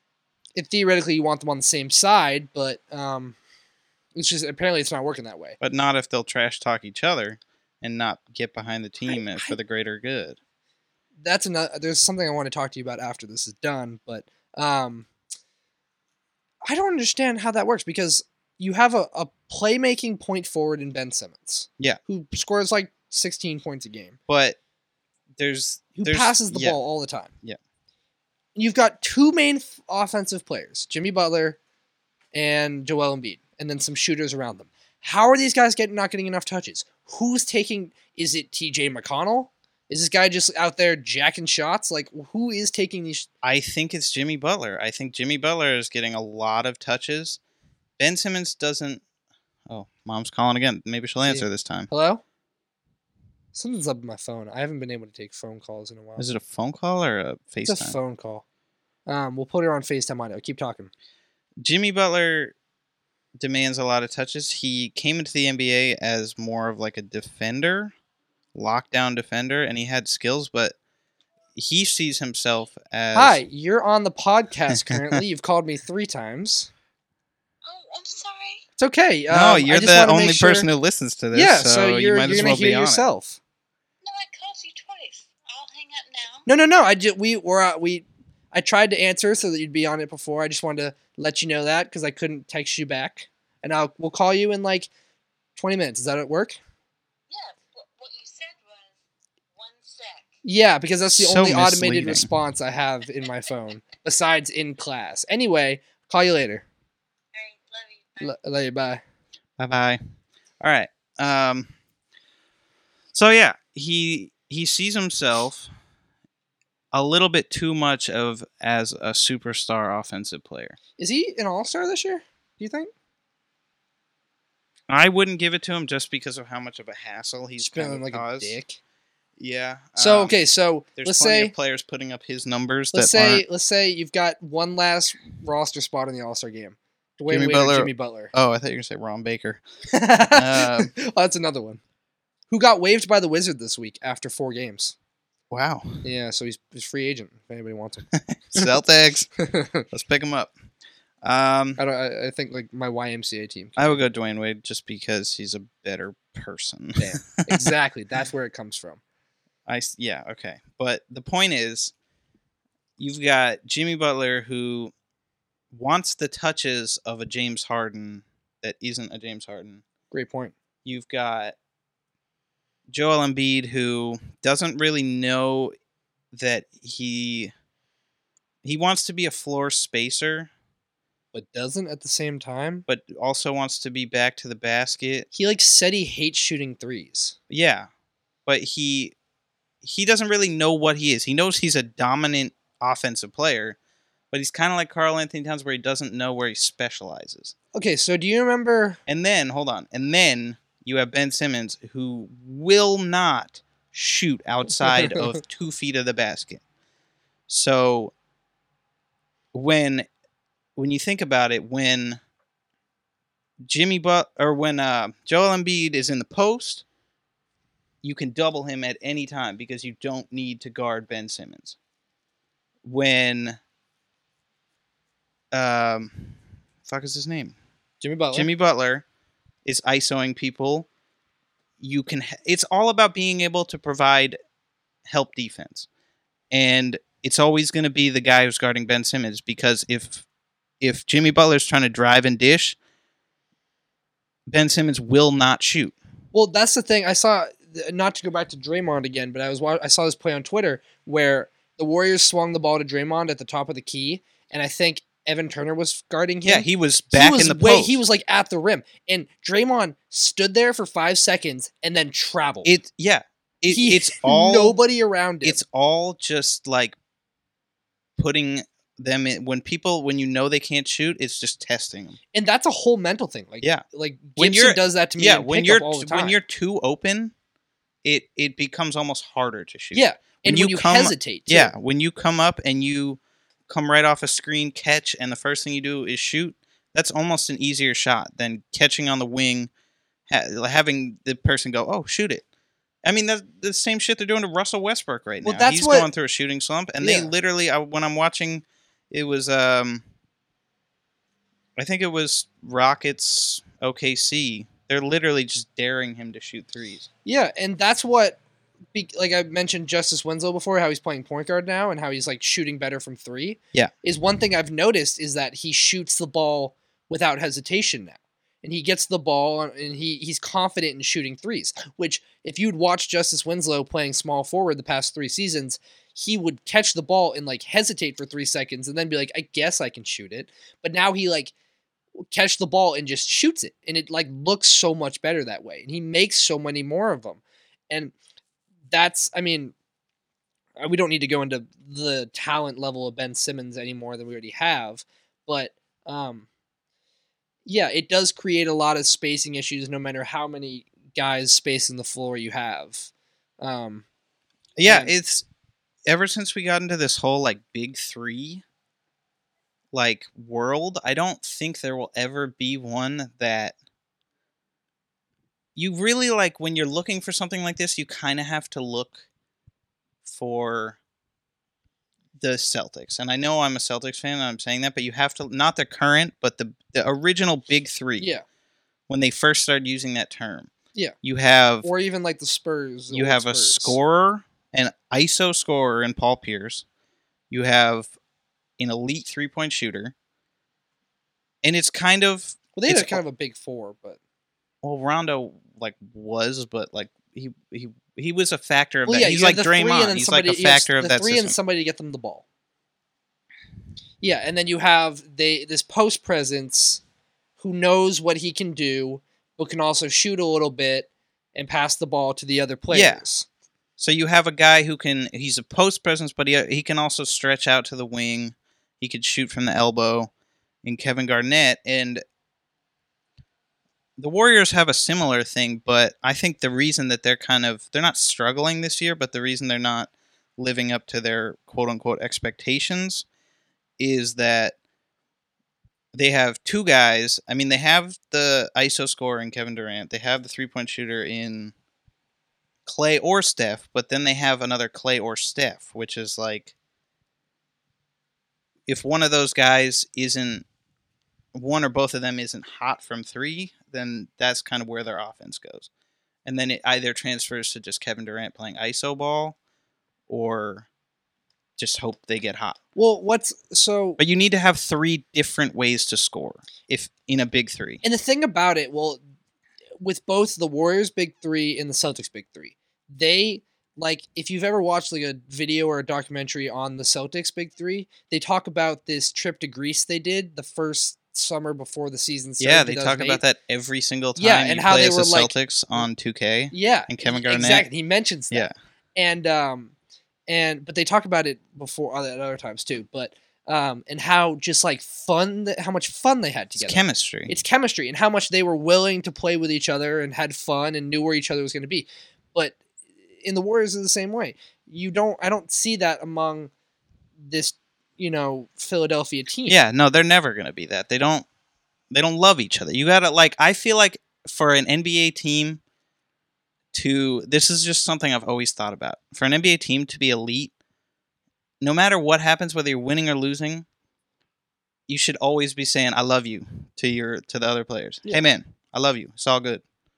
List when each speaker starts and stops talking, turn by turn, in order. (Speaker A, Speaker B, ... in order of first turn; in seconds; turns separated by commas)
Speaker A: 0.6-3.4, Speaker A: 4.2-5.6, Speaker B: 5.6-10.4, Speaker A: 9.1-9.5, Speaker A: 11.2-15.1, Speaker A: 16.7-24.2, Speaker B: 24.3-24.6, Speaker B: 25.4-26.8, Speaker A: 26.0-27.3, Speaker A: 28.6-31.6, Speaker A: 32.3-43.3, Speaker B: 43.4-47.4, Speaker B: 48.0-49.0, Speaker B: 49.7-51.9, Speaker A: 51.3-52.2, Speaker A: 53.5-56.3, Speaker B: 56.2-58.0, Speaker A: 57.6-58.4, Speaker A: 59.1-60.9, Speaker B: 61.6-62.5, Speaker B: 63.4-67.9, Speaker B: 68.5-70.8, Speaker B: 71.5-73.4, Speaker A: 73.1-76.7, Speaker B: 74.7-75.2, Speaker C: 77.6-78.6, Speaker A: 78.8-80.7, Speaker B: 79.3-83.1, Speaker A: 81.3-83.4, Speaker C: 84.0-86.5, Speaker A: 86.5-94.9, Speaker A: 95.6-96.6, Speaker C: 97.3-98.9, Speaker C: 99.5-100.4, Speaker A: 100.4-106.7, Speaker B: 101.1-102.3, Speaker C: 103.0-103.7, Speaker C: 107.3-108.4, Speaker A: 108.2-109.0, Speaker B: 109.6-110.0, Speaker B: 110.6-111.7, Speaker B: 113.1-115.7, Speaker B: 116.9-120.8, Speaker A: 121.0-122.9, Speaker B: 124.9-128.6, Speaker A: 127.6-128.8, Speaker B: 129.4-130.3, Speaker A: 130.0-131.5, Speaker B: 131.0-133.4, Speaker A: 132.9-138.3, Speaker B: 137.3-139.6, Speaker A: 139.9-141.8, Speaker B: 140.3-140.9, Speaker A: 142.5-144.9, Speaker B: 145.5-146.1, Speaker A: 146.0-148.7, Speaker B: 148.1-149.3, Speaker A: 149.4-149.8, Speaker B: 149.9-150.5, Speaker B: 151.2-151.8, Speaker A: 151.8-154.0, Speaker B: 153.8-157.7, Speaker A: 157.0-159.0, Speaker B: 159.7-161.9, Speaker B: 163.0-164.9, Speaker B: 165.7-169.8, Speaker A: 170.1-170.5, Speaker B: 170.8-171.6, Speaker B: 172.9-175.7, Speaker B: 176.3-177.5, Speaker B: 178.6-180.5, Speaker A: 181.3-182.9, Speaker B: 182.9-185.3, Speaker A: 185.3-187.4, Speaker B: 187.5-187.9, Speaker B: 188.5-189.2, Speaker B: 189.8-193.8, Speaker B: 194.3-197.5, Speaker A: 197.7-199.0, Speaker B: 199.1-206.6, Speaker A: 204.9-205.3, Speaker B: 207.5-208.1, Speaker B: 209.5-210.1, Speaker B: 210.8-212.2, Speaker B: 213.7-216.8, Speaker B: 218.0-221.8, Speaker B: 222.8-223.6, Speaker B: 225.5-227.6, Speaker A: 228.0-228.5, Speaker B: 228.3-229.0, Speaker B: 229.7-230.9, Speaker B: 231.8-234.4, Speaker B: 235.1-235.9, Speaker B: 236.5-240.2, Speaker B: 240.8-242.8, Speaker B: 244.5-246.0, Speaker A: 246.3-262.7, Speaker B: 256.4-258.0, Speaker B: 262.6-264.8, Speaker A: 263.7-265.6, Speaker B: 265.4-266.9, Speaker B: 268.2-272.2, Speaker A: 272.3-276.4, Speaker B: 274.4-277.3, Speaker B: 278.0-289.7, Speaker A: 279.9-281.7, Speaker B: 290.3-292.4, Speaker B: 293.0-300.0, Speaker A: 295.4-296.1, Speaker A: 297.0-297.3, Speaker B: 301.8-307.1, Speaker A: 307.2-308.4, Speaker A: 308.9-331.5, Speaker A: 332.3-338.1, Speaker A: 338.9-339.7, Speaker A: 340.8-346.5, Speaker A: 347.6-354.1, Speaker B: 354.8-355.5, Speaker A: 354.8-355.1, Speaker B: 356.1-358.6, Speaker B: 359.9-363.8, Speaker B: 365.8-369.2, Speaker B: 370.2-371.0, Speaker B: 372.4-378.3, Speaker A: 378.2-378.4, Speaker B: 379.1-380.7, Speaker B: 381.2-381.9, Speaker A: 381.8-384.0, Speaker B: 383.1-386.9, Speaker B: 387.5-388.1, Speaker B: 388.8-390.1, Speaker B: 391.6-393.2, Speaker A: 392.8-394.2, Speaker B: 394.8-401.6, Speaker A: 399.1-402.4, Speaker A: 404.2-407.0, Speaker A: 407.6-413.5, Speaker B: 412.9-413.2, Speaker B: 414.0-420.3, Speaker B: 420.8-422.2, Speaker B: 424.2-433.2, Speaker B: 434.0-434.8, Speaker B: 436.1-441.7, Speaker B: 442.9-446.7, Speaker B: 448.9-450.6, Speaker B: 451.5-455.9, Speaker B: 456.4-459.6, Speaker B: 460.3-460.9, Speaker B: 461.8-462.8, Speaker A: 463.0-464.2, Speaker B: 464.2-468.0, Speaker A: 468.0-469.2, Speaker A: 470.0-483.4, Speaker B: 482.6-487.9, Speaker A: 484.4-486.1, Speaker A: 486.7-489.9, Speaker A: 490.5-502.8, Speaker B: 496.8-497.5, Speaker A: 503.4-506.7, Speaker A: 507.4-509.8, Speaker B: 509.7-511.5, Speaker B: 512.1-515.8, Speaker B: 516.9-520.7, Speaker B: 521.8-523.9, Speaker B: 525.1-529.8